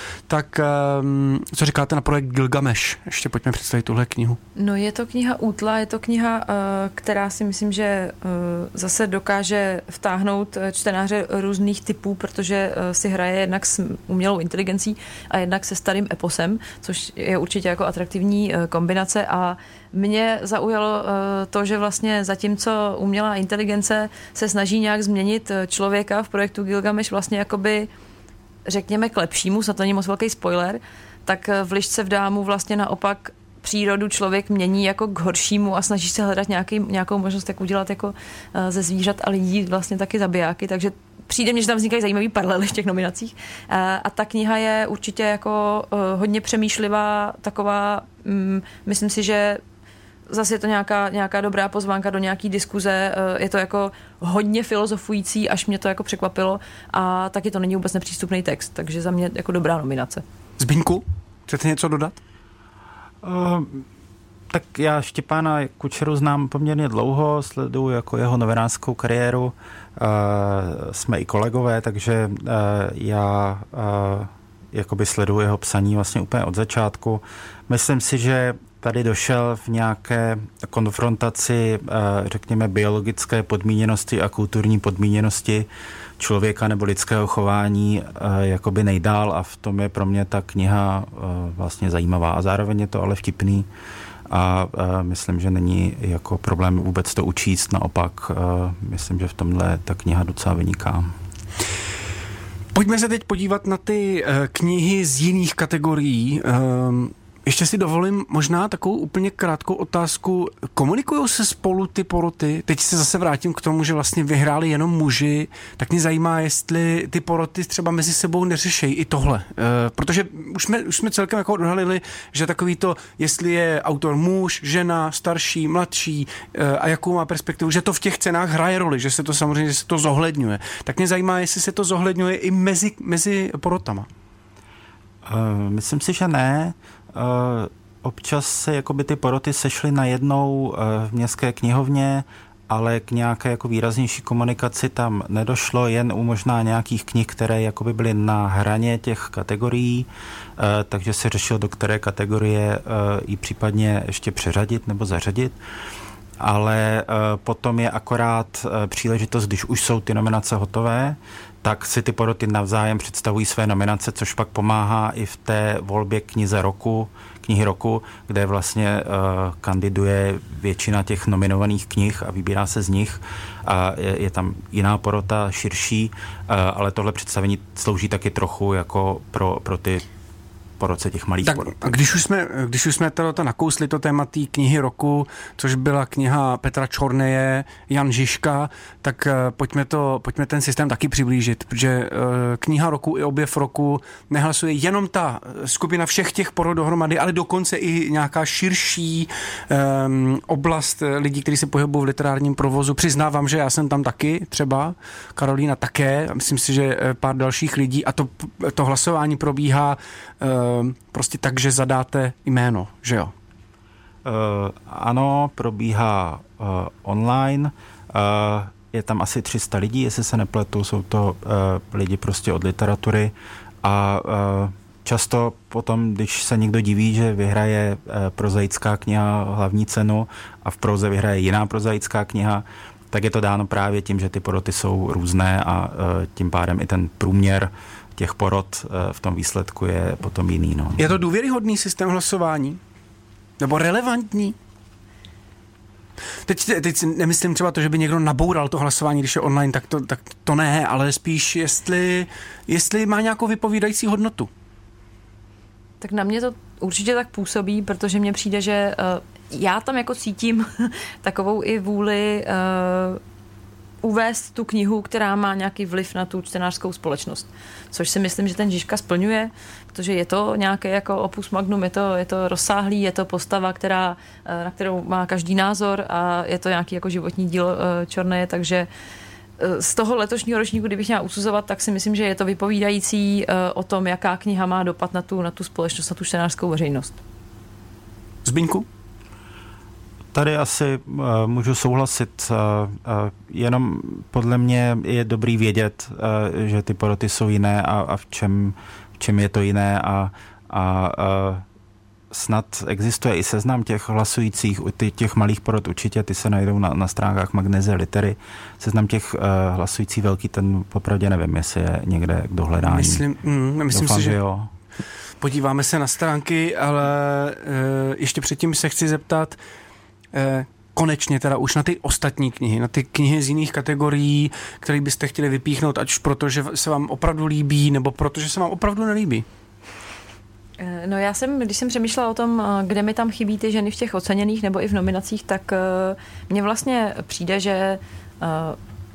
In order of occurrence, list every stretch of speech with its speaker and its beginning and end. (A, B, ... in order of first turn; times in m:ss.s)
0:00.3-0:04.4 A
0:04.6-0:27.9 B
0:28.7-0:49.6 B
0:50.3-1:00.2 B
1:00.6-1:02.2 A
1:03.2-1:03.8 C
1:04.5-1:25.7 C
1:26.2-1:33.7 C
1:34.3-1:41.1 C
1:42.7-2:14.1 A
2:15.2-2:35.5 C
2:36.4-3:00.0 C
3:00.8-3:01.8 C
3:01.4-3:33.3 A
3:34.2-4:01.0 C
4:01.0-4:02.8 A
4:03.6-4:04.6 A
4:06.4-4:14.5 A
4:16.0-4:23.2 B
4:24.0-4:38.9 B
4:39.6-4:47.2 B
4:48.4-4:48.9 A
4:50.3-5:01.6 C
5:02.3-5:13.2 C
5:12.8-5:14.4 A
5:13.9-5:14.7 C
5:15.4-5:19.6 A
5:20.3-5:29.4 A
5:30.8-5:38.8 B